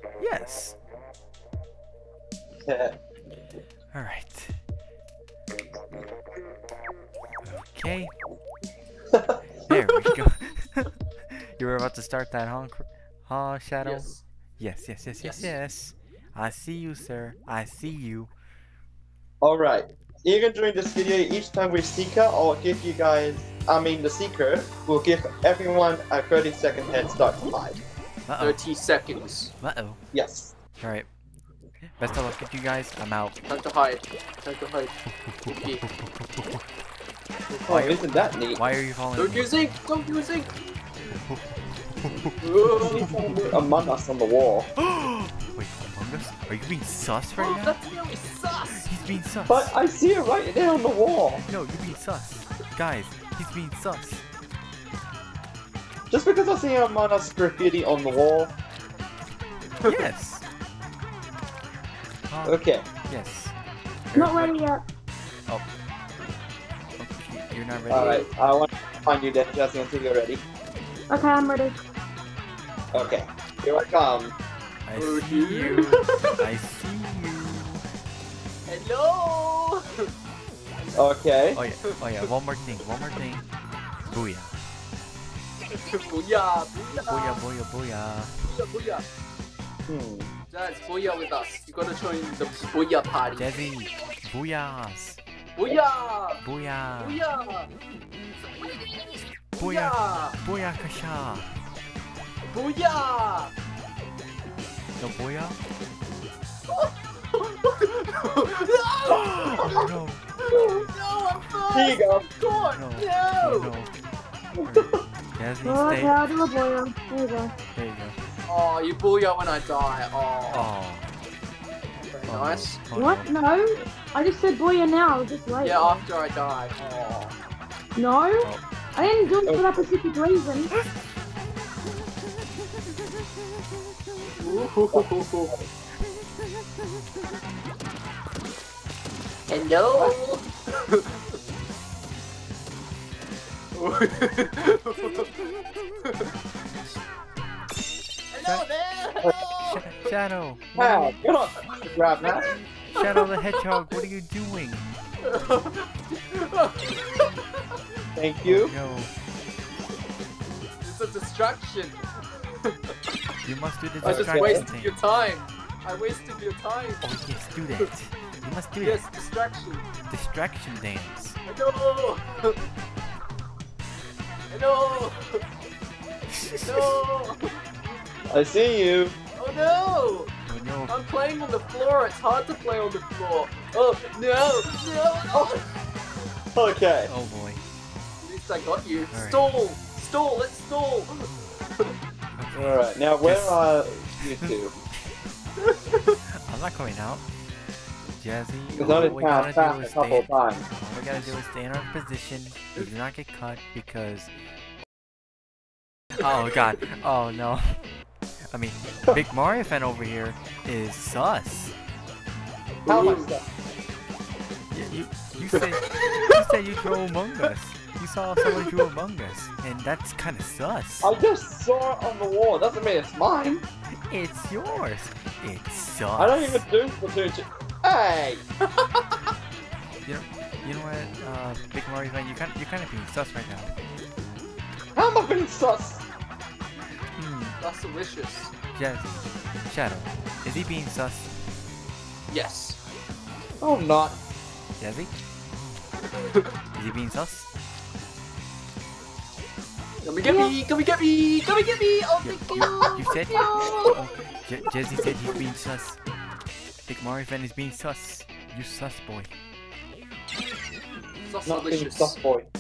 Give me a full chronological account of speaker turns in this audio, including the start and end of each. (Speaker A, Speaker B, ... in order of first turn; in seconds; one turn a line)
Speaker A: 0.2-0.8
Speaker B: 2.6-3.0
Speaker A: 3.9-4.6
Speaker A: 7.4-8.1
Speaker B: 9.1-9.4
Speaker A: 9.7-18.3
Speaker C: 13.8-14.2
Speaker C: 15.2-15.5
Speaker B: 19.4-27.8
Speaker A: 28.3-28.6
Speaker C: 28.4-29.6
Speaker A: 29.6-30.0
Speaker B: 30.1-30.5
Speaker A: 30.8-31.1
Speaker A: 32.0-33.4
Speaker C: 33.5-35.8
Speaker A: 35.2-36.7
Speaker C: 37.5-38.0
Speaker B: 37.7-38.6
Speaker A: 38.6-39.5
Speaker C: 39.2-40.5
Speaker A: 41.0-43.7
Speaker C: 42.4-43.4
Speaker B: 42.7-44.7
Speaker A: 44.8-47.8
Speaker C: 47.4-48.9
Speaker A: 48.7-49.7
Speaker B: 49.5-51.4
Speaker A: 51.5-54.2
Speaker B: 56.1-58.5
Speaker C: 59.8-60.1
Speaker A: 59.8-60.5
Speaker A: 62.2-63.5
Speaker B: 62.4-62.9
Speaker A: 64.1-64.6
Speaker D: 64.2-64.8
Speaker A: 67.0-68.3
Speaker B: 67.9-70.4
Speaker C: 67.9-68.3
Speaker D: 71.1-71.8
Speaker B: 72.9-74.3
Speaker A: 74.9-77.8
Speaker C: 75.0-76.4
Speaker C: 78.7-80.1
Speaker C: 80.8-81.1
Speaker B: 81.0-81.6
Speaker A: 81.5-83.5
Speaker C: 81.9-82.3
Speaker A: 84.0-84.5
Speaker C: 85.7-87.4
Speaker A: 87.1-88.3
Speaker C: 88.5-89.0
Speaker B: 89.9-90.3
Speaker C: 90.5-93.5
Speaker A: 93.4-95.2
Speaker C: 95.6-96.4
Speaker A: 96.4-97.2
Speaker C: 97.0-97.7
Speaker C: 99.6-100.4
Speaker A: 99.6-101.5
Speaker C: 102.4-103.5
Speaker A: 105.0-105.6
Speaker C: 106.7-109.9
Speaker A: 109.1-110.3
Speaker C: 110.4-113.7
Speaker B: 111.7-112.3
Speaker A: 112.5-113.9
Speaker B: 114.6-115.0
Speaker A: 114.7-116.2
Speaker D: 115.7-117.5
Speaker A: 117.7-118.2
Speaker C: 118.5-120.7
Speaker A: 120.5-121.1
Speaker C: 122.0-122.8
Speaker A: 122.3-123.3
Speaker D: 122.9-126.0
Speaker C: 125.6-127.3
Speaker D: 128.0-130.7
Speaker A: 128.4-129.1
Speaker A: 133.9-134.5
Speaker C: 134.4-135.5
Speaker B: 134.9-135.7
Speaker A: 136.1-137.0
Speaker C: 139.5-141.2
Speaker C: 143.8-145.3
Speaker A: 145.0-145.7
Speaker C: 146.0-146.3
Speaker C: 148.3-150.1
Speaker A: 149.7-151.0
Speaker B: 150.8-152.5
Speaker C: 152.2-154.0
Speaker A: 152.9-154.8
Speaker C: 155.2-157.8
Speaker B: 158.2-158.7
Speaker A: 158.5-159.1
Speaker C: 160.8-162.9
Speaker A: 163.4-164.9
Speaker C: 164.0-167.1
Speaker B: 164.0-164.7
Speaker A: 167.0-169.1
Speaker C: 168.8-169.9
Speaker A: 170.0-171.4
Speaker C: 171.5-172.6
Speaker C: 174.5-175.5
Speaker A: 176.3-177.0
Speaker C: 176.6-177.7
Speaker B: 178.3-179.2
Speaker C: 179.4-180.3
Speaker A: 180.5-180.9
Speaker C: 180.9-185.7
Speaker B: 186.6-187.1
Speaker A: 187.1-187.6
Speaker C: 188.2-191.9
Speaker A: 189.1-189.5
Speaker A: 192.4-193.6
Speaker B: 192.5-194.8
Speaker C: 195.6-196.2
Speaker A: 196.5-197.2
Speaker A: 198.1-204.3
Speaker B: 198.8-200.7
Speaker A: 206.2-207.8
Speaker A: 208.5-211.8
Speaker C: 212.8-213.4
Speaker B: 212.9-213.4
Speaker A: 214.7-221.1
Speaker C: 215.5-216.4
Speaker C: 218.4-218.7
Speaker B: 221.0-223.6
Speaker A: 224.1-226.6
Speaker B: 226.2-228.4
Speaker A: 230.1-233.7
Speaker B: 235.0-236.1
Speaker A: 237.2-237.6
Speaker C: 237.6-238.5
Speaker A: 238.7-241.4
Speaker C: 242.3-242.8
Speaker B: 243.6-244.2
Speaker A: 244.8-245.1
Speaker C: 246.2-246.5
Speaker A: 246.8-247.5
Speaker C: 250.0-254.0
Speaker D: 250.2-250.5
Speaker A: 252.2-256.0
Speaker D: 253.3-253.9
Speaker A: 256.9-259.3
Speaker C: 261.3-262.2
Speaker B: 261.5-262.5